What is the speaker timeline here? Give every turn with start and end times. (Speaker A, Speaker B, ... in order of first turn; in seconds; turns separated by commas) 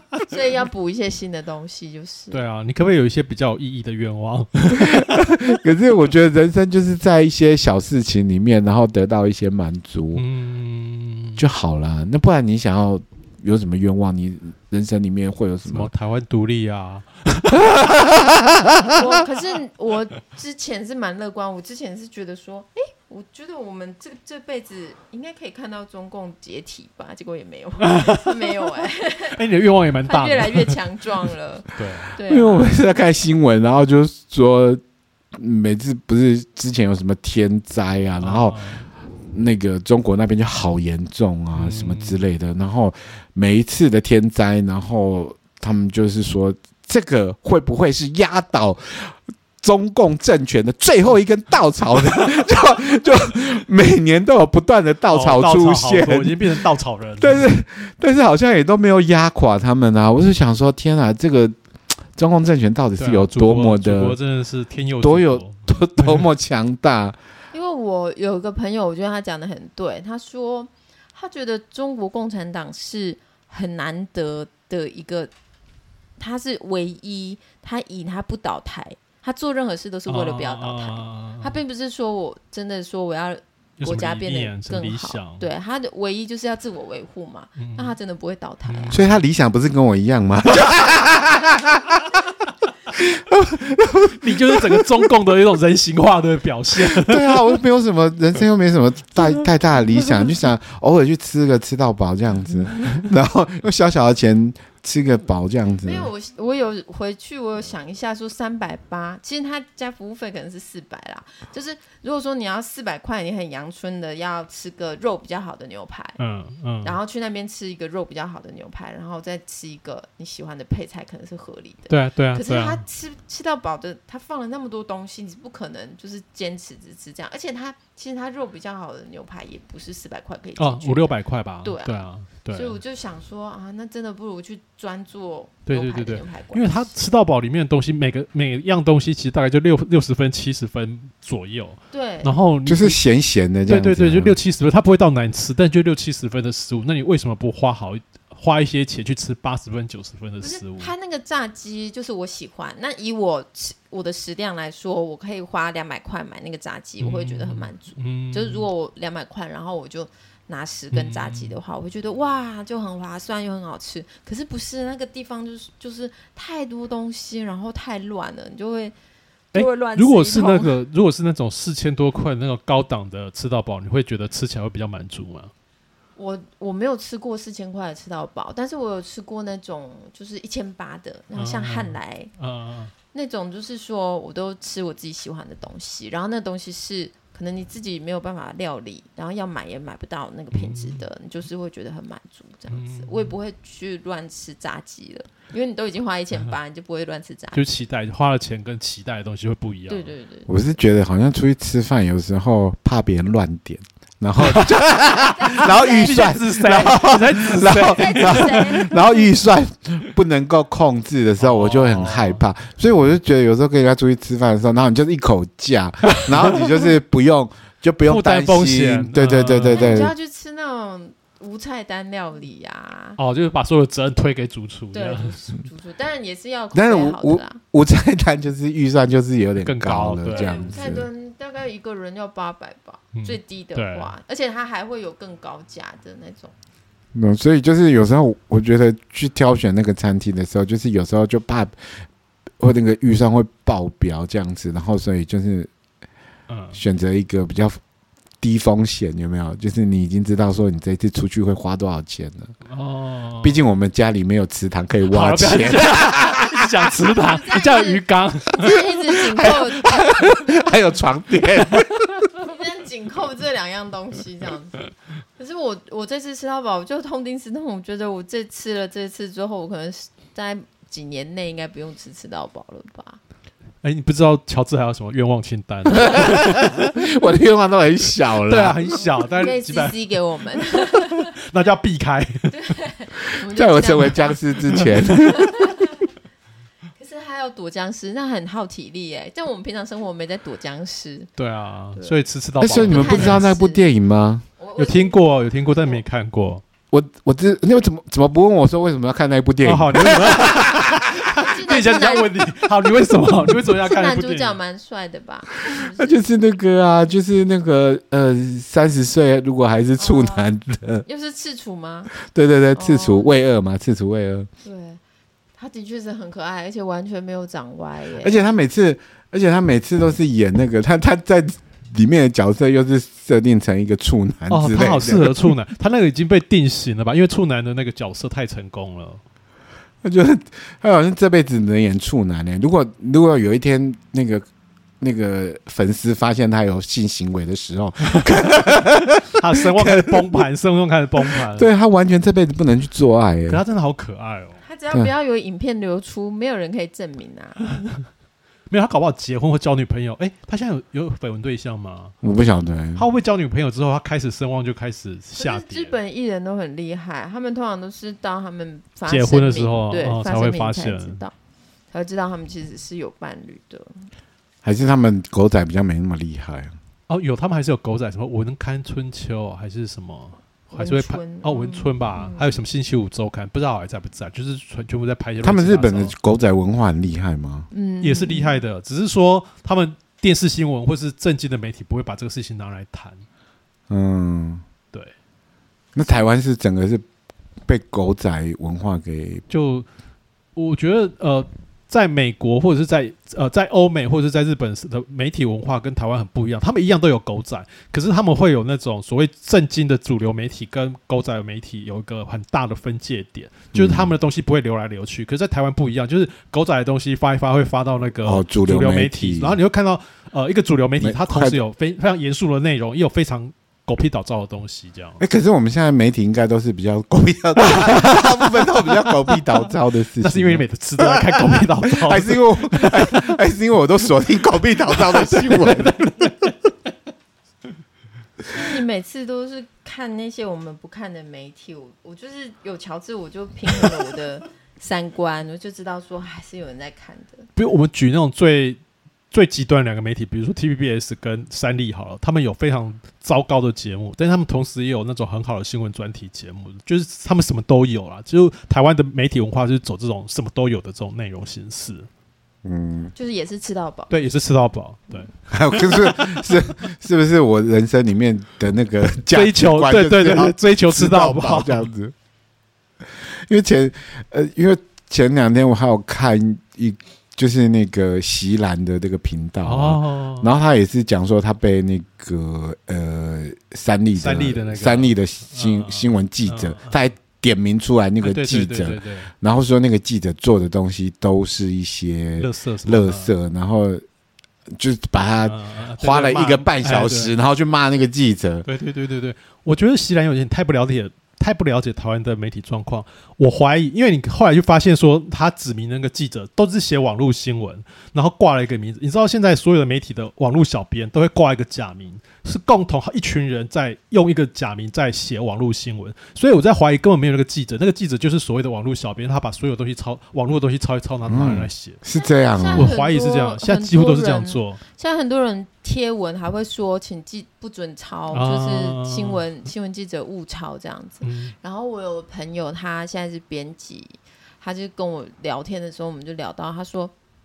Speaker A: 0.3-2.4, Speaker B: 2.3-5.4, Speaker C: 4.7-10.2, Speaker B: 10.2-11.4, Speaker C: 11.4-15.9, Speaker B: 15.7-17.8, Speaker C: 17.7-18.2, Speaker A: 18.9-29.4, Speaker B: 27.8-28.6, Speaker B: 29.3-30.8, Speaker A: 30.1-32.8, Speaker B: 31.8-32.2, Speaker C: 32.3-34.8, Speaker C: 35.4-38.6, Speaker B: 38.2-38.9, Speaker C: 39.3-56.6, Speaker B: 41.5-42.2, Speaker B: 55.1-57.5, Speaker C: 57.2-61.6, Speaker C: 62.2-64.2, Speaker B: 63.0-66.2, Speaker C: 65.0-67.2, Speaker A: 67.5-75.3, Speaker A: 76.2-89.0, Speaker B: 80.1-81.6, Speaker B: 83.8-85.5, Speaker B: 87.6-87.9, Speaker B: 88.7-89.1, Speaker C: 88.9-92.2, Speaker C: 93.0-95.1, Speaker B: 94.2-97.5, Speaker C: 96.7-106.1, Speaker A: 105.8-116.2, Speaker B: 116.2-117.0, Speaker A: 116.8-136.9, Speaker B: 121.9-122.8, Speaker B: 130.6-132.8, Speaker B: 135.7-143.0, Speaker A: 141.9-142.3, Speaker C: 142.7-144.4, Speaker B: 143.7-150.9, Speaker A: 150.4-168.9, Speaker B: 157.0-158.7, Speaker B: 160.9-161.6, Speaker A: 169.5-170.8, Speaker B: 169.5-175.5, Speaker A: 176.2-182.3, Speaker B: 181.3-182.9, Speaker A: 183.1-197.6, Speaker B: 190.5-191.1, Speaker B: 192.7-193.3, Speaker B: 197.5-200.1, Speaker A: 199.9-200.5, Speaker C: 200.5-220.1, Speaker B: 204.4-204.8, Speaker A: 205.0-206.4, Speaker B: 205.5-208.9, Speaker A: 207.7-209.3, Speaker B: 211.4-212.4, Speaker B: 216.1-216.8, Speaker B: 218.0-220.1, Speaker A: 219.7-223.2, Speaker B: 223.2-225.4, Speaker A: 224.9-227.6, Speaker C: 226.7-231.1, Speaker B: 229.6-230.8, Speaker A: 230.3-236.5, Speaker B: 233.2-234.1, Speaker C: 237.1-241.8, Speaker C: 242.6-245.7, Speaker B: 246.5-246.8, Speaker C: 246.7-247.8, Speaker C: 248.4-252.5, Speaker B: 252.7-253.6, Speaker C: 253.4-256.9, Speaker B: 255.1-258.9, Speaker A: 257.1-260.4, Speaker C: 259.4-262.3, Speaker A: 262.4-264.8, Speaker A: 265.4-273.2, Speaker B: 273.8-276.9, Speaker C: 276.0-279.0, Speaker B: 278.4-280.0, Speaker A: 279.0-281.3, Speaker B: 280.9-282.7, Speaker A: 282.5-284.4, Speaker C: 283.5-285.6, Speaker A: 285.2-286.1, Speaker A: 287.0-291.3, Speaker B: 291.4-293.5, Speaker A: 291.9-293.8, Speaker C: 292.6-294.4, Speaker A: 294.6-295.2, Speaker B: 294.8-296.6, Speaker C: 296.9-301.2, Speaker B: 299.6-304.6, Speaker A: 301.4-302.3, Speaker A: 303.7-306.2, Speaker C: 305.7-311.1, Speaker A: 310.0-310.5, Speaker A: 311.1-312.1, Speaker C: 312.1-314.5, Speaker A: 312.7-313.3, Speaker A: 314.6-315.0, Speaker A: 315.6-318.4, Speaker C: 318.2-325.5, Speaker B: 324.5-329.2, Speaker C: 330.0-334.5, Speaker C: 335.0-340.5, Speaker B: 339.4-341.7, Speaker C: 341.2-343.6, Speaker B: 343.5-344.6, Speaker A: 344.6-347.6, Speaker B: 348.7-352.2, Speaker C: 352.2-353.1, Speaker B: 353.0-355.9, Speaker A: 355.4-361.3, Speaker B: 359.1-361.2, Speaker A: 361.9-364.1, Speaker C: 364.6-366.7, Speaker B: 367.1-376.1, Speaker A: 370.7-372.5, Speaker C: 375.4-377.7, Speaker A: 377.7-378.6, Speaker B: 378.0-383.2, Speaker C: 383.9-384.6, Speaker C: 385.9-387.1, Speaker C: 387.7-389.4, Speaker B: 389.5-389.9, Speaker B: 390.6-415.2, Speaker C: 403.7-404.1, Speaker C: 408.2-409.6, Speaker C: 411.0-411.6, Speaker C: 415.2-426.2, Speaker B: 417.7-419.5, Speaker B: 420.2-423.3, Speaker B: 425.0-426.4, Speaker A: 428.5-437.5, Speaker B: 437.6-438.8, Speaker B: 439.3-452.1, Speaker C: 452.6-453.1, Speaker A: 453.1-454.2, Speaker B: 454.1-456.6, Speaker C: 455.5-462.1, Speaker B: 459.3-461.9, Speaker C: 463.1-484.0, Speaker B: 469.6-470.5, Speaker B: 474.2-477.0, Speaker B: 478.2-479.3, Speaker B: 482.4-483.3, Speaker C: 484.8-488.7, Speaker B: 485.4-487.3, Speaker B: 488.6-512.0, Speaker C: 511.3-513.0, Speaker A: 512.1-527.1, Speaker B: 512.7-514.8, Speaker B: 518.3-519.4, Speaker B: 521.2-521.5